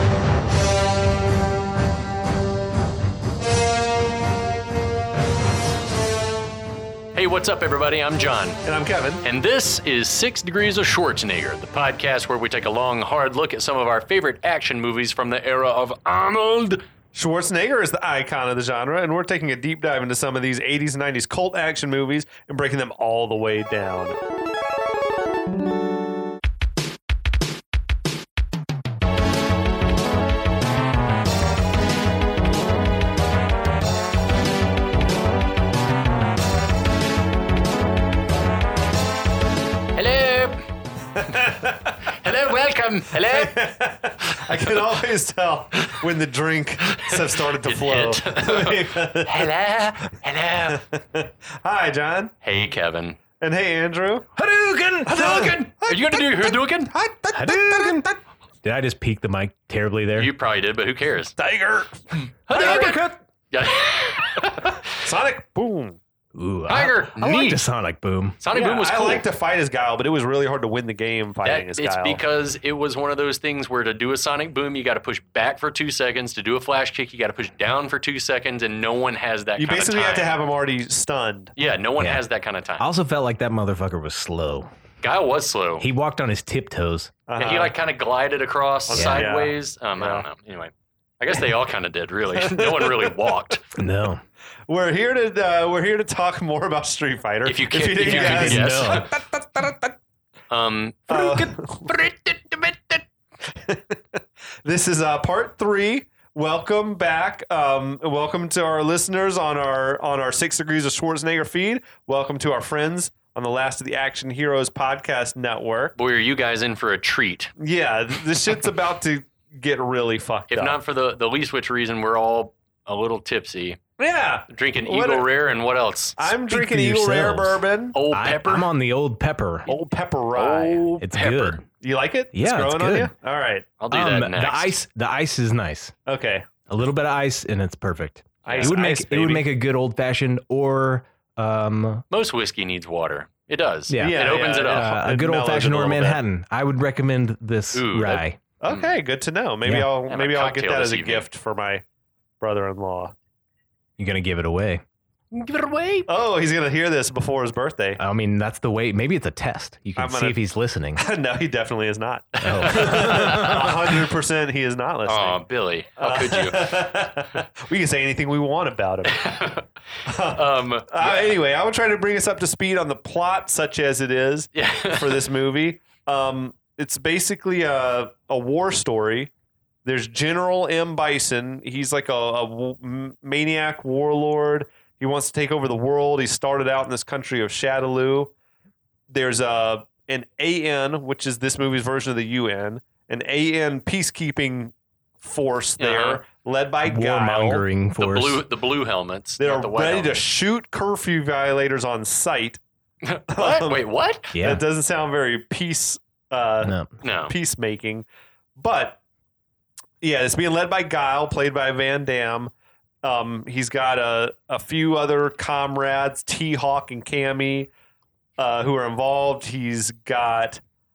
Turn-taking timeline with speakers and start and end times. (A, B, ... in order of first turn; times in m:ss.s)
0:07.1-0:08.6 A
0:08.6-0:09.2 B
0:09.2-0:16.8 A
0:17.1-0:24.1 B
0:39.9-0:40.6 A
0:41.2-0:42.0 B
0:42.0-0:43.6 A
0:43.2-0:49.5 B
0:44.3-0:44.7 A
0:46.9-0:50.8 A
0:50.7-0:52.3 B
0:52.4-0:53.2 A
0:53.4-0:54.3 B
0:54.4-0:55.5 C
0:55.0-0:58.2 B
0:55.1-0:56.9 A
0:57.3-0:58.0 C
0:58.6-1:00.3 C
1:00.2-1:01.3 A
1:01.4-1:03.1 B
1:02.5-1:04.8 A
1:04.9-1:06.0 B
1:06.3-1:08.4 C
1:06.7-1:07.6 A
1:08.4-1:09.2 A
1:08.5-1:12.2 B
1:11.4-1:20.4 A
1:19.6-1:21.5 B
1:21.6-1:22.8 A
1:22.8-1:24.7 C
1:25.0-1:25.8 A
1:25.8-1:27.1 C
1:27.3-1:27.7 B
1:27.4-1:33.6 A
1:28.9-1:30.2 B
1:28.9-1:29.3 C
1:32.4-1:33.1 B
1:33.8-1:34.2 C
1:34.7-1:39.9 B
1:37.4-1:39.1 A
1:38.0-1:39.0 C
1:40.5-1:43.0 A
1:41.1-1:41.9 B
1:43.6-1:55.9 B
1:56.0-1:57.5 A
1:57.6-2:00.8 B
2:00.5-2:03.8 A
2:04.0-2:05.3 B
2:04.5-2:06.2 A
2:06.2-2:08.0 B
2:06.5-2:09.6 C
2:07.9-2:08.7 A
2:09.7-2:10.9 B
2:10.3-2:11.6 A
2:11.0-2:11.6 C
2:11.8-2:13.7 B
2:12.3-2:13.1 C
2:13.8-2:14.7 A
2:13.9-2:15.9 C
2:16.0-2:16.5 B
2:16.7-2:22.0 C
2:18.4-2:19.4 B
2:18.4-2:18.7 A
2:22.1-2:24.9 A
2:23.9-2:28.4 C
2:24.0-2:26.2 B
2:27.7-2:28.9 A
2:28.6-2:31.8 B
2:29.6-2:29.9 C
2:30.1-2:31.2 A
2:32.4-2:33.1 B
2:34.0-2:34.8 C
2:35.3-2:36.1 A
2:36.1-2:38.0 B
2:38.0-2:41.0 C
2:40.0-2:40.4 B
2:40.9-2:45.4 B
2:42.4-2:43.6 A
2:42.4-2:43.8 C
2:45.1-2:46.8 A
2:46.0-2:49.4 B
2:49.1-2:49.6 A
2:50.0-2:59.3 B
2:50.3-2:51.3 A
2:54.5-2:55.2 A
2:59.8-3:08.3 B
3:09.1-3:17.6 B
3:15.8-3:16.2 A
3:16.8-3:18.4 C
3:18.0-3:20.1 A
3:19.4-3:22.6 B
3:23.0-3:24.3 A
3:23.3-3:23.8 B
3:24.3-3:24.6 C
3:24.3-3:26.7 B
3:26.6-3:26.9 C
3:27.0-3:27.3 A
3:27.3-3:28.0 B
3:28.6-3:29.0 B
3:30.0-3:32.5 B
3:33.0-3:37.7 B
3:38.4-3:40.6 B